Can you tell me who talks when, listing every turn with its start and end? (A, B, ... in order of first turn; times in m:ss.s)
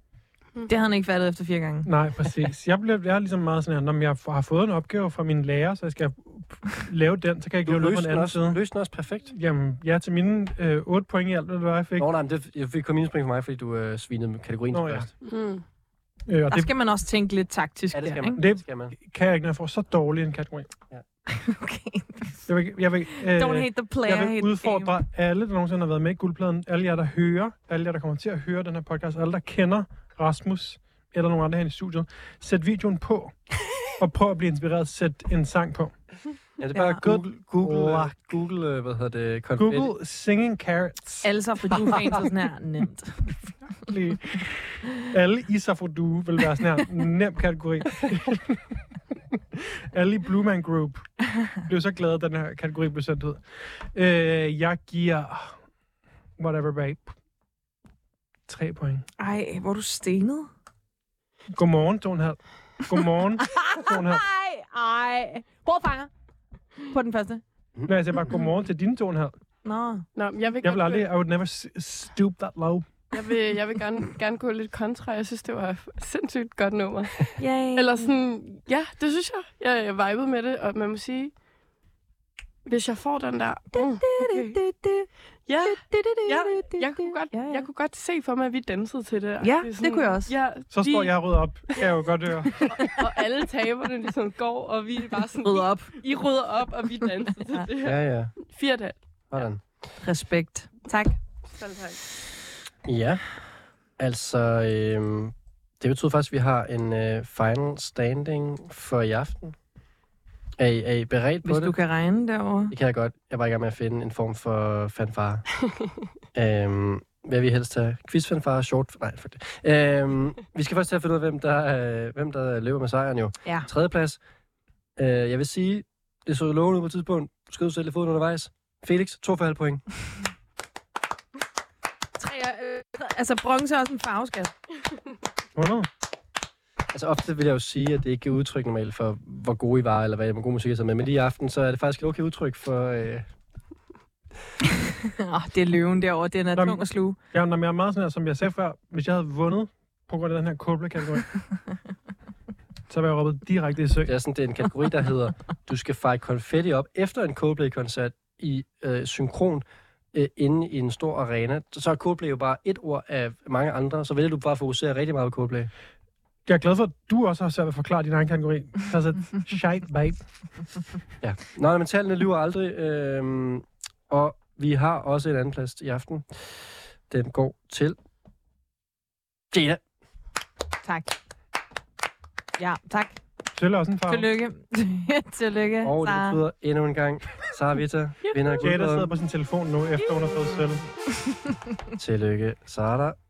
0:00.7-0:01.9 A
0:01.8-0:08.6 B
0:07.6-0:09.3 C
0:09.3-0:12.1 B
0:12.0-0:15.1 C
0:14.7-0:15.1 B
0:15.2-0:15.6 D
0:16.3-0:16.7 B
0:16.5-0:18.4 A
0:17.9-0:18.9 C
0:18.4-0:20.7 B
0:21.3-0:22.5 A
0:22.5-0:33.4 B
0:23.1-0:24.9 A
0:34.0-0:35.9 B
0:36.6-0:39.9 C
0:36.7-0:37.0 A
0:37.0-0:38.2 B
0:39.6-0:41.3 B
0:41.2-0:43.3 A
0:43.8-0:48.6 B
0:49.5-0:51.0 B
0:51.6-0:55.6 B
0:56.4-0:57.1 B
0:58.5-0:59.0 B
0:59.2-1:00.5 A
1:01.5-1:04.2 B
1:03.4-1:06.1 A
1:06.8-1:07.4 A
1:07.8-1:08.2 C
1:07.8-1:09.4 B
1:09.6-1:10.0 A
1:10.1-1:11.1 D
1:10.6-1:12.9 B
1:13.1-1:21.3 D
1:17.4-1:18.1 A
1:22.6-1:24.6 D
1:23.7-1:25.1 A
1:25.5-1:31.9 D
1:25.6-1:27.6 A
1:29.4-1:30.3 A
1:30.7-1:32.9 B
1:32.6-1:39.0 D
1:35.4-1:35.9 A
1:37.8-1:38.3 C
1:39.3-1:39.6 C
1:40.0-1:41.2 A
1:41.5-1:42.0 D
1:42.8-1:43.2 C
1:44.0-1:49.6 C
1:50.6-1:51.8 C
1:51.4-1:52.7 A
1:52.7-1:55.4 C
1:56.3-2:04.2 C
2:05.0-2:09.8 C
2:12.2-2:14.5 A
2:15.6-2:15.9 B
2:16.9-2:23.3 C
2:25.2-2:27.2 A
2:26.5-2:31.4 B
2:32.9-2:34.1 B
2:34.0-2:45.7 C
2:46.4-2:50.2 B
2:51.2-2:58.0 C
2:59.5-2:59.8 C
3:00.8-3:01.2 A
3:02.6-3:03.2 A
3:03.5-3:04.3 B
3:04.1-3:06.4 A
3:05.8-3:09.1 C
3:08.2-3:08.6 D
3:08.6-3:10.8 B
3:12.0-3:13.2 C